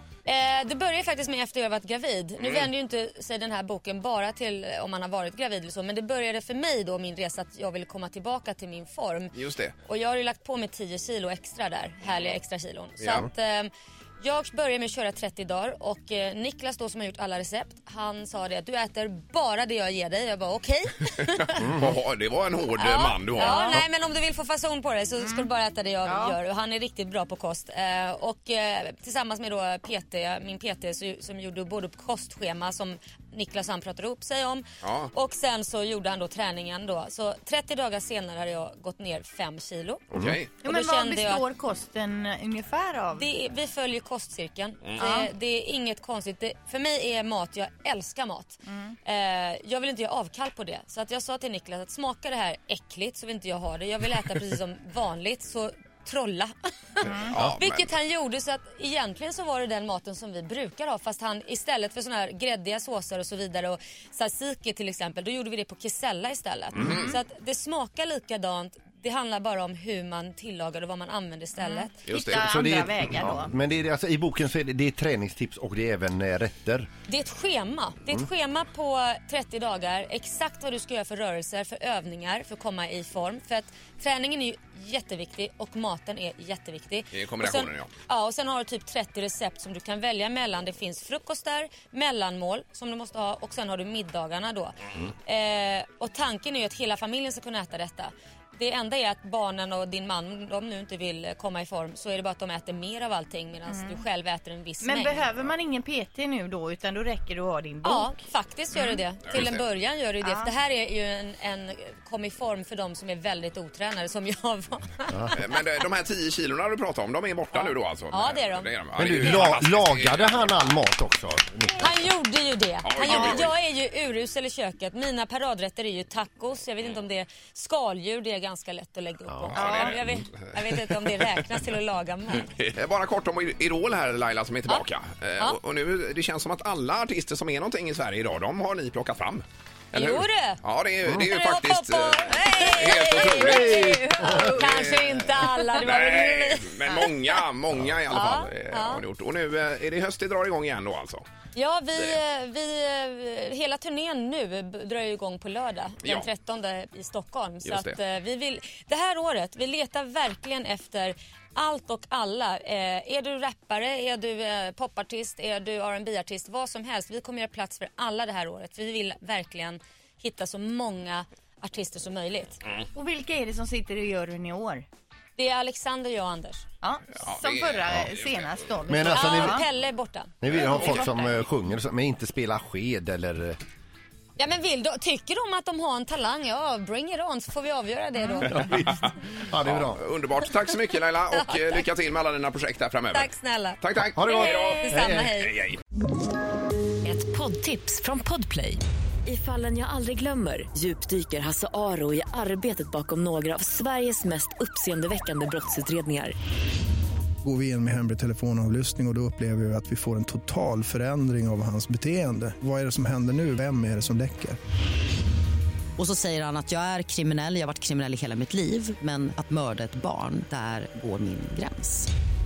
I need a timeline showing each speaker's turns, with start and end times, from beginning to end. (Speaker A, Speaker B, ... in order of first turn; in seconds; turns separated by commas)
Speaker A: 0.2-21.7, Speaker B: 2.4-2.7, Speaker B: 9.3-9.7, Speaker B: 21.5-23.8, Speaker C: 21.6-21.9, Speaker A: 22.8-40.1, Speaker D: 26.1-26.4, Speaker B: 34.8-35.1, Speaker B: 40.1-40.6, Speaker D: 40.6-43.3, Speaker A: 40.6-41.5, Speaker A: 43.1-72.3, Speaker B: 44.8-45.1, Speaker D: 45.0-45.3, Speaker D: 48.7-48.9, Speaker D: 57.0-57.3, Speaker B: 57.0-57.9, Speaker B: 66.8-67.1, Speaker D: 71.6-73.5, Speaker B: 72.0-72.4, Speaker C: 72.3-76.9, Speaker A: 77.1-105.3, Speaker B: 87.1-87.9, Speaker D: 103.7-104.0, Speaker D: 104.8-108.2, Speaker A: 107.8-115.6, Speaker D: 108.7-109.0, Speaker B: 109.3-109.6, Speaker D: 110.2-110.5, Speaker B: 115.3-120.7, Speaker A: 118.1-118.7, Speaker C: 119.0-122.1, Speaker A: 119.2-119.5, Speaker A: 121.8-132.5, Speaker B: 122.8-123.5, Speaker C: 129.3-129.6, Speaker B: 129.5-131.2, Speaker D: 129.6-129.9, Speaker B: 132.3-151.2, Speaker A: 139.9-147.4, Speaker D: 143.2-145.4, Speaker C: 143.4-144.5, Speaker A: 148.1-149.0, Speaker A: 151.5-172.6, Speaker B: 157.6-158.0, Speaker D: 172.9-174.8, Speaker A: 175.3-176.6, Speaker D: 176.8-179.6, Speaker B: 177.2-178.7, Speaker C: 178.9-179.7, Speaker A: 179.1-181.3, Speaker C: 180.4-183.6, Speaker B: 180.5-181.1, Speaker A: 184.4-188.9, Speaker C: 188.5-188.8, Speaker B: 188.6-189.0, Speaker C: 189.4-190.0, Speaker B: 189.6-195.8, Speaker A: 191.3-191.8, Speaker A: 193.1-195.5, Speaker C: 194.1-195.3, Speaker E: 197.0-206.3, Speaker F: 207.4-214.6, Speaker G: 216.0-222.1